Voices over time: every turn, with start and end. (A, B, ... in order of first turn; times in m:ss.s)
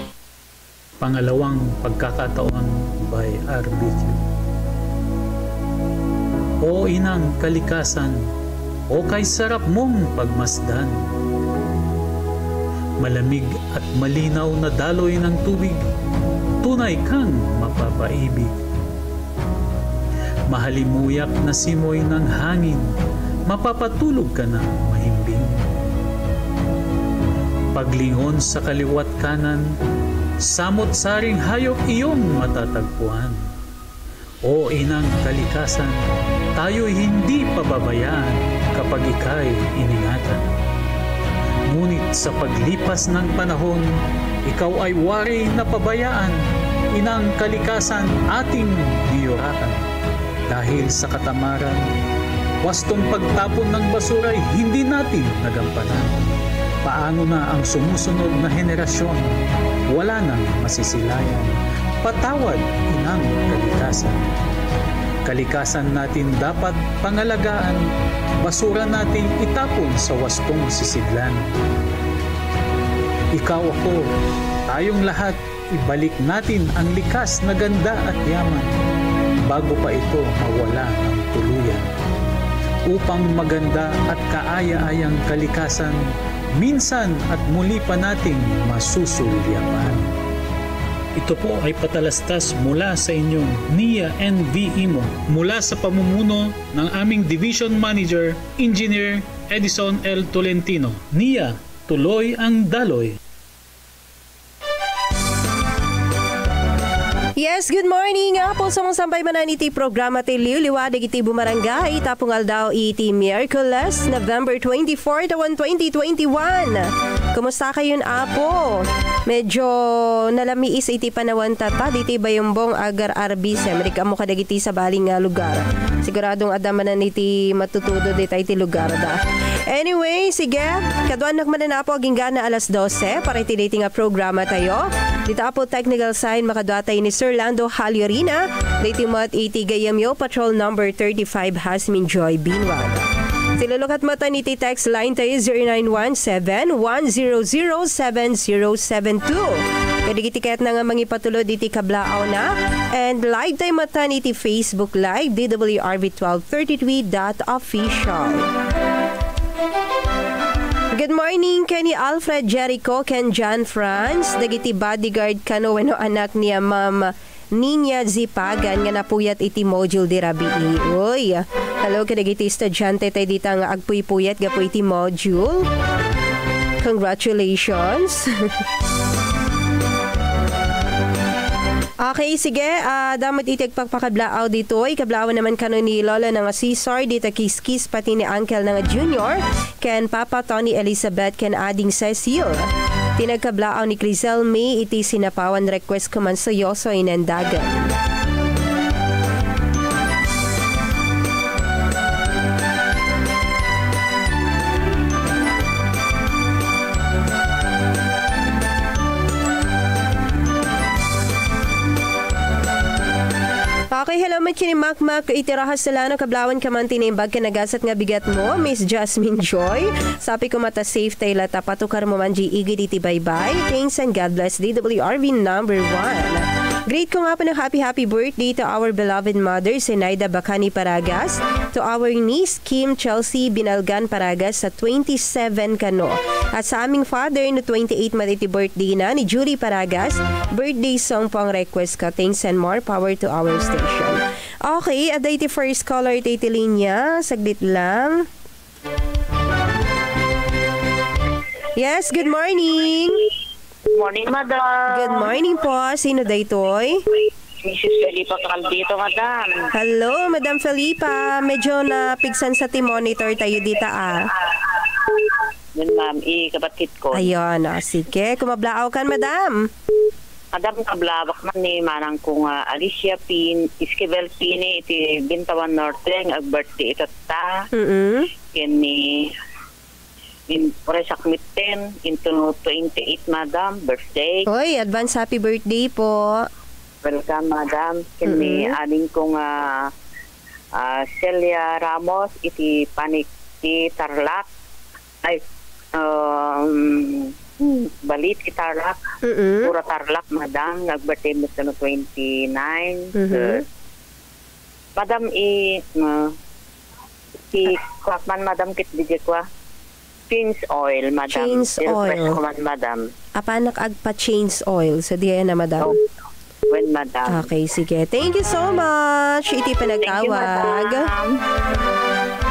0:01.0-0:04.2 A
0:06.6-0:08.2 A
0:08.9-0:11.0 A
0:13.0-0:15.8 A
0:16.6-0:18.6 A
0:20.5-0:22.9 A
0:23.5-0:25.7 A
0:27.7-0:29.7 A
0:30.5-0:33.4 A
0:34.4-0:36.0 A
0:36.6-0:40.4 A
0:41.7-0:43.9 A
0:44.5-0:46.4 A
0:47.0-0:49.9 A
0:50.5-0:51.8 A
0:52.6-0:56.3 A
0:56.8-0:59.2 A
0:59.9-1:04.2 A
1:05.2-1:07.8 A
1:08.4-1:11.5 A
1:13.3-1:14.1 A
1:14.7-1:18.7 A
1:19.5-1:21.9 A
1:22.9-1:26.0 A
1:26.6-1:30.1 A
1:31.2-1:43.2 A
1:47.4-2:09.2 B
2:09.7-2:23.1 B
2:23.6-2:38.5 B
2:41.0-2:55.7 B
2:56.8-2:58.3 B
3:02.0-3:12.7 B
3:13.2-3:17.9 B
3:33.9-4:08.3 B
4:11.8-4:13.2 B
4:13.9-4:15.4 C
4:14.9-4:17.0 B
4:17.6-4:19.6 C
4:19.7-4:24.3 B
4:25.8-4:27.3 C
4:27.1-4:29.7 B
4:30.5-4:37.5 C
4:37.7-4:38.3 B
4:38.5-4:39.3 C
4:40.5-4:44.4 C
4:44.4-4:46.5 B
4:47.0-4:49.9 C
4:48.3-4:48.8 B
4:50.8-4:54.4 C
4:55.9-4:59.0 C
4:59.2-4:59.7 B
4:59.6-5:03.6 C
5:03.1-5:03.6 B
5:05.0-5:06.3 C
5:07.5-5:09.4 C
5:10.3-5:13.0 C
5:11.3-5:12.4 B
5:13.4-5:15.9 B
5:16.7-5:17.5 C
5:17.3-5:21.1 B
5:19.8-5:21.4 C